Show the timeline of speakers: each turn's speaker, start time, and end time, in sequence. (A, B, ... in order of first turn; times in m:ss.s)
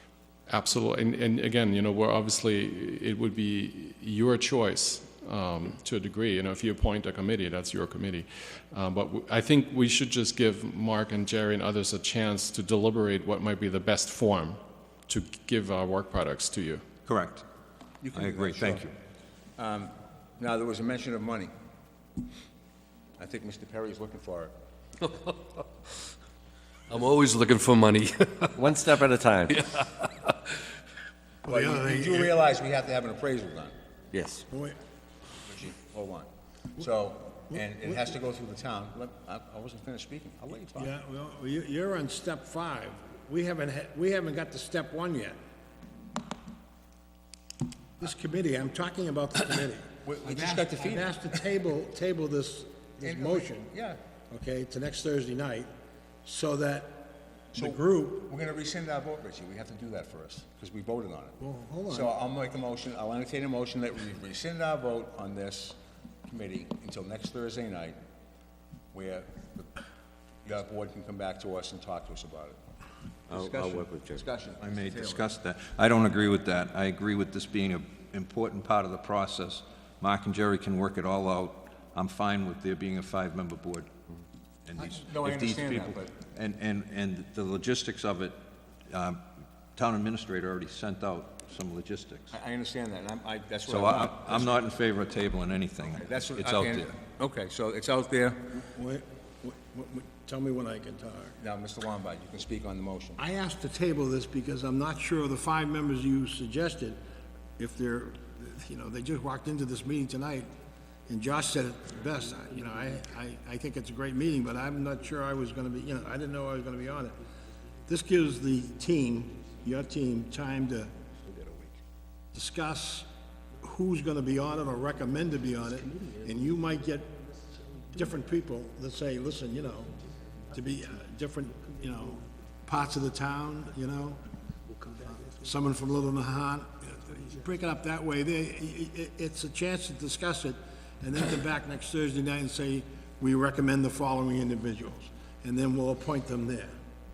0:00.5-0:16.8 A
0:17.1-0:17.4 B
0:18.0-0:18.9 C
0:18.1-0:18.9 B
0:19.6-0:21.5 C
0:23.2-0:24.5 C
0:26.9-0:28.6 D
0:28.5-0:29.6 E
0:29.5-0:30.1 D
0:31.4-0:33.8 C
0:31.5-0:32.3 F
0:34.1-0:34.4 E
0:34.5-0:34.8 F
0:35.4-0:40.9 C
0:37.5-0:38.0 F
0:40.8-0:45.4 F
0:48.0-0:53.7 F
0:50.0-0:51.4 C
0:53.0-0:54.0 C
0:54.3-0:55.7 F
0:56.2-0:58.3 F
0:57.5-1:01.4 C
1:01.4-1:02.1 F
1:01.9-1:08.0 C
1:08.9-1:09.7 C
1:10.4-1:12.6 C
1:13.3-1:15.3 C
1:13.3-1:14.2 E
1:14.6-1:23.9 B
1:24.7-1:29.2 B
1:24.8-1:26.1 C
1:29.8-1:32.3 B
1:32.3-1:34.6 C
1:33.7-1:36.9 B
1:35.9-1:38.6 C
1:38.6-1:41.4 F
1:41.4-1:43.2 C
1:43.2-1:47.0 F
1:47.6-1:50.5 F
1:51.1-1:57.2 F
1:57.9-2:00.9 F
2:01.3-2:01.7 D
2:02.3-2:03.1 F
2:03.6-2:07.1 F
2:05.7-2:06.6 D
2:07.5-2:08.1 D
2:08.0-2:09.9 F
2:10.5-2:14.2 F
2:11.5-2:12.3 D
2:14.7-2:15.8 D
2:15.4-2:26.8 F
2:17.1-2:17.3 D